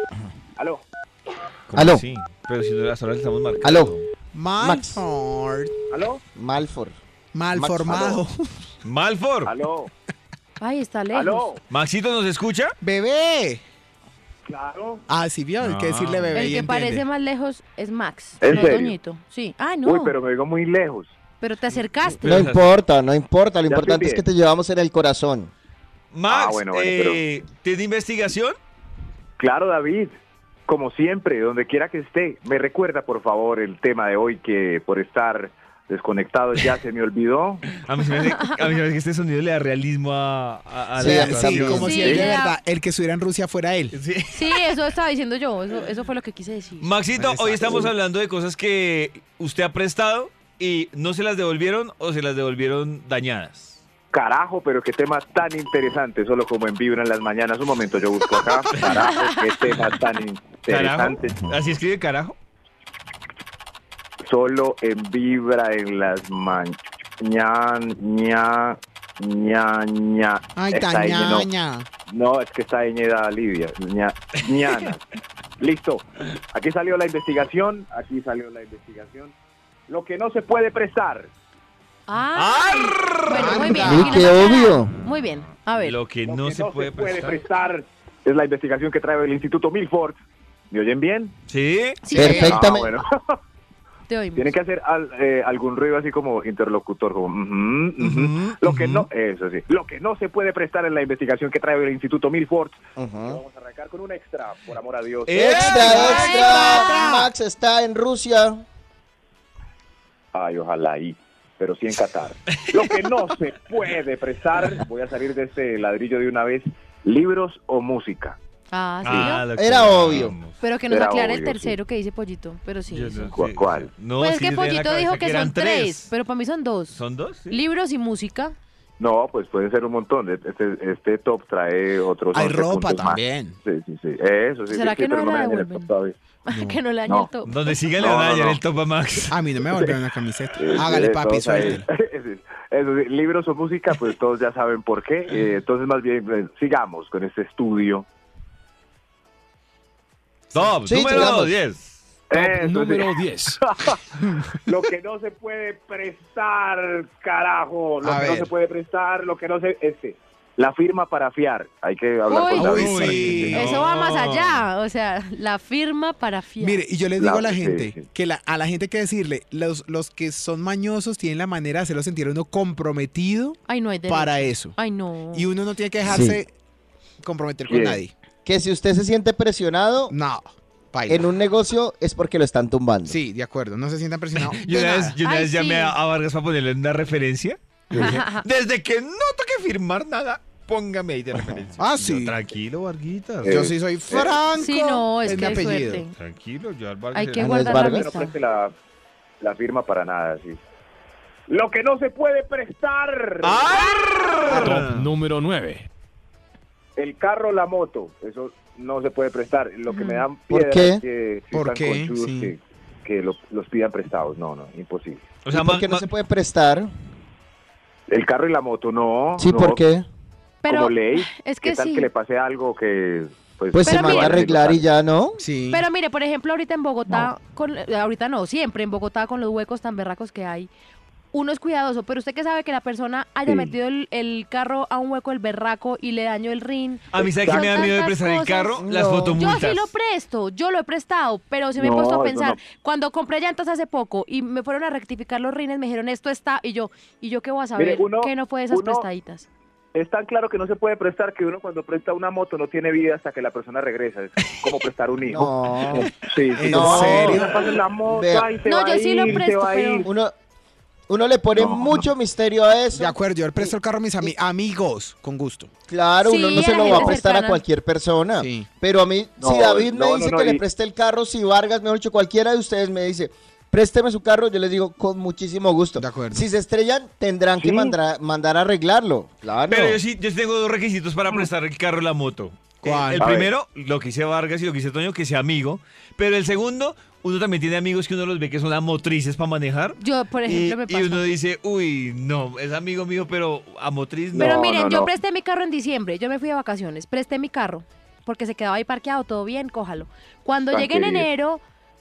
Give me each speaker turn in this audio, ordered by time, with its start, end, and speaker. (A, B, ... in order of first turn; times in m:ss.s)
0:00.6-0:00.8 A
0:01.7-0:04.0 B
0:01.8-0:02.0 C
0:03.6-0:03.9 C
0:04.3-0:05.7 D
0:04.6-0:05.0 C
0:05.9-0:06.2 A
0:06.3-0:06.9 C
0:07.3-0:08.5 D
0:07.5-0:08.2 C
0:08.8-0:09.5 B
0:09.4-0:09.9 A
0:10.6-0:11.4 E
0:11.1-0:11.6 A
0:11.7-0:12.7 B
0:12.8-0:13.6 D
0:14.5-0:15.0 A
0:15.1-0:17.0 D
0:15.6-0:16.3 B
0:16.3-0:20.1 E
0:18.4-0:18.9 A
0:18.4-0:18.7 B
0:19.8-0:21.1 A
0:21.4-0:22.3 E
0:22.2-0:22.7 B
0:22.2-0:25.5 C
0:23.7-0:24.2 A
0:26.1-0:28.6 B
0:26.3-0:27.2 A
0:29.4-0:30.1 A
0:30.7-0:37.7 A
0:37.7-0:42.1 B
0:41.0-0:42.2 C
0:41.0-0:44.0 D
0:41.7-0:42.6 E
0:43.9-0:44.6 B
0:44.3-0:46.9 E
0:46.8-0:53.8 B
0:47.1-0:47.9 D
0:54.1-1:01.4 A
0:58.7-0:59.0 B
0:59.1-0:59.4 E
1:00.7-1:02.3 B
1:04.2-1:11.5 A
1:10.6-1:11.9 D
1:12.1-1:15.0 A
1:15.6-1:19.3 A
1:19.9-1:21.3 A
1:22.1-1:26.0 E
1:22.4-1:24.2 B
1:23.3-1:24.3 D
1:23.8-1:24.9 C
1:25.7-1:27.4 B
1:26.3-1:31.3 A
1:31.5-1:32.0 B
1:32.0-1:32.6 E
1:32.1-1:33.0 C
1:32.2-1:32.6 D
1:32.2-1:33.4 A
1:34.1-1:34.5 E
1:34.4-1:45.6 A
1:38.0-1:39.1 B
1:43.0-1:43.4 C
1:45.3-1:46.8 B
1:45.3-1:48.6 C
1:45.6-1:47.1 E
1:45.9-1:47.3 D
1:50.3-1:58.4 A
1:52.5-1:53.0 B
1:58.7-1:59.4 E
1:59.0-2:00.5 B
1:59.6-2:00.3 C
2:00.6-2:03.3 E
2:00.9-2:01.8 A
2:02.9-2:06.1 B
2:03.3-2:03.9 A
2:04.2-2:07.0 E
2:06.9-2:07.6 B
2:07.5-2:08.5 E
2:09.0-2:16.2 A
2:12.3-2:13.6 D
2:14.7-2:15.9 E
2:16.4-2:17.7 E
2:16.5-2:16.8 D
2:17.4-2:19.4 B
2:18.0-2:18.6 A
2:19.3-2:21.8 D
2:20.6-2:28.1 A
2:30.5-2:31.9 B
2:30.9-2:31.5 C
2:32.3-2:34.0 A
2:32.3-2:33.6 F
2:34.6-2:43.7 A
2:38.0-2:38.5 D
2:42.3-2:43.0 E
2:42.5-2:43.7 D
2:42.6-2:44.6 B
2:43.5-2:46.8 E
2:46.6-2:54.7 D
2:47.2-2:48.0 A
2:53.7-2:55.4 E
2:55.3-2:56.5 D
2:56.0-2:56.4 C
2:57.2-2:58.1 D
2:57.6-2:58.0 A
2:58.4-3:00.1 C
3:00.1-3:01.3 D
3:01.1-3:03.2 C
3:03.1-3:05.2 D
3:04.4-3:13.6 B
3:05.2-3:06.0 E
3:07.9-3:08.4 E
3:11.8-3:12.4 D
3:13.4-3:14.4 A
3:13.5-3:16.0 D
3:14.5-3:16.1 E
3:16.2-3:17.6 B
3:17.1-3:18.3 E
3:17.4-3:18.1 C
3:17.7-3:18.7 A
3:19.4-3:20.6 A
3:21.5-3:23.7 A
3:23.4-3:25.1 B
3:24.5-3:25.9 F
3:24.5-3:24.8 D
3:27.0-3:35.3 A
3:29.9-3:30.2 E
3:30.5-3:31.0 C
3:31.5-3:32.5 D
3:35.4-3:36.0 B
3:35.5-3:36.9 C
3:38.1-3:39.8 A
3:39.4-3:40.0 C
3:40.6-3:42.1 E
3:40.6-3:44.8 A
3:43.7-3:45.4 C
3:43.8-3:44.4 E
3:45.4-3:45.8 D
3:45.7-3:50.7 E
3:51.3-3:58.8 E
3:53.4-3:53.7 A
3:57.1-3:59.9 B
3:57.2-3:57.9 A
3:58.8-3:59.4 C
3:59.3-4:09.5 E
4:01.8-4:02.6 A
4:07.8-4:09.0 A
4:09.9-4:20.1 A
4:15.2-4:16.1 C
4:16.5-4:17.6 D
4:16.6-4:17.4 C
4:18.1-4:18.5 C
4:18.6-4:20.1 E
4:20.0-4:20.3 C
4:21.1-4:24.3 C
4:21.6-4:22.1 A
4:22.9-4:25.7 D
4:25.9-4:40.0 C
4:26.2-4:27.6 E
4:26.6-4:27.2 A
4:28.4-4:28.7 D
4:29.4-4:30.6 A
4:36.0-4:36.4 D
4:37.6-4:38.0 A
4:39.7-4:54.6 B
4:42.8-4:43.3 D
4:43.2-4:43.5 A
4:50.0-4:51.3 E
4:54.3-4:55.1 A
4:54.4-5:01.6 E
5:00.7-5:01.3 A